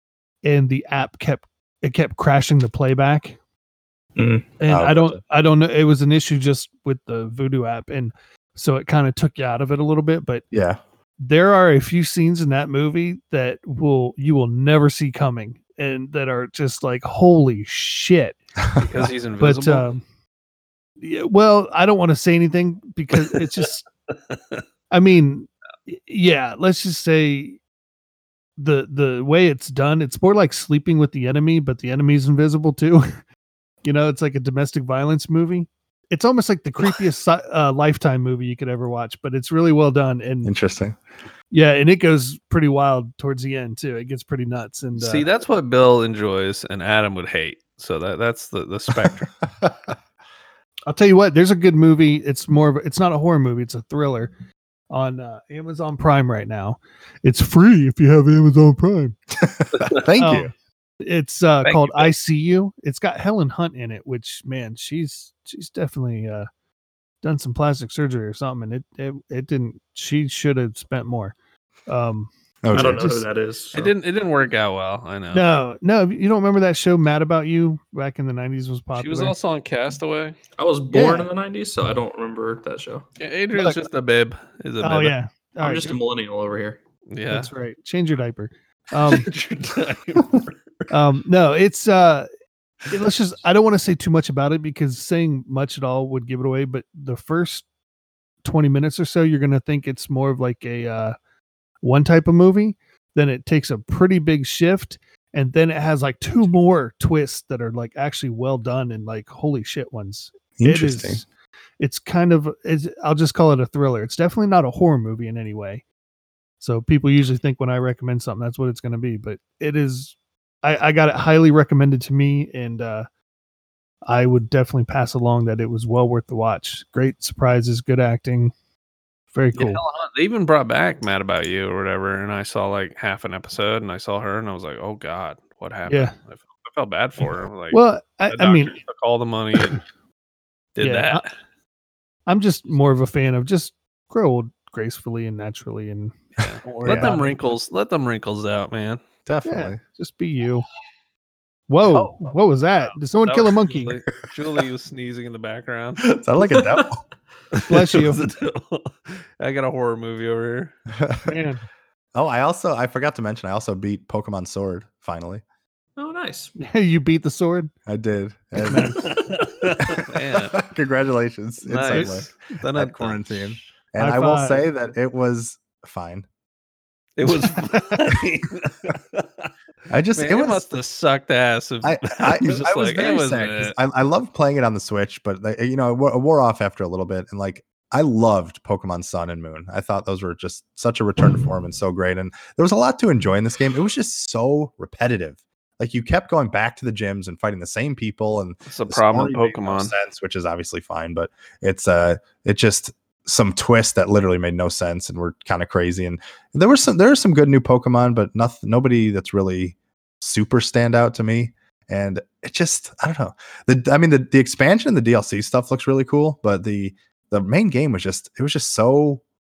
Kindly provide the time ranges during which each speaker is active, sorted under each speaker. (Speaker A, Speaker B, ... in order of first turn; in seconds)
Speaker A: 0.4-3.4, 4.6-10.4, 11.2-18.4, 19.4-20.0, 21.0-23.9, 24.9-27.6, 28.6-33.1, 33.8-40.5, 41.5-45.2, 50.9-54.3, 54.9-59.1, 60.2-66.5, 67.2-71.3, 71.9-73.2, 75.3-79.3, 80.9-81.3, 83.5-83.8, 84.8-86.0, 87.3-89.3, 90.9-92.3, 92.9-97.7, 98.4-101.1, 101.8-111.2, 111.8-115.8, 116.6-123.1, 124.0-128.5, 129.3-129.8, 135.9-136.1, 137.7-138.8, 140.8-141.2, 142.3-147.4, 149.4-150.7, 151.7-154.0, 157.7-158.2, 161.2-161.6, 166.6-167.7, 168.6-169.0, 174.0-174.7
Speaker B: 4.2-4.5, 72.7-73.9, 80.6-83.1, 85.6-86.8, 156.4-156.9, 166.0-166.5
Speaker C: 4.7-5.2, 10.5-10.8, 40.4-41.0, 49.0-49.9, 59.4-60.5, 72.6-73.0, 110.6-111.2, 146.8-147.1, 149.2-149.8, 156.0-157.0, 160.9-161.3, 162.1-165.4, 167.9-169.1, 169.9-176.2, 179.9-180.7, 181.8-219.2
Speaker D: 18.8-19.9, 24.3-24.6, 45.0-49.3, 61.6-62.1, 73.7-75.5, 79.0-80.4, 83.2-85.1, 87.1-87.5, 89.0-90.9, 129.5-139.8, 140.8-141.3, 146.4-149.0, 151.9-156.1, 157.5-160.7, 168.8-170.6, 171.6-173.6, 177.2-179.5, 180.1-183.8, 198.7-199.9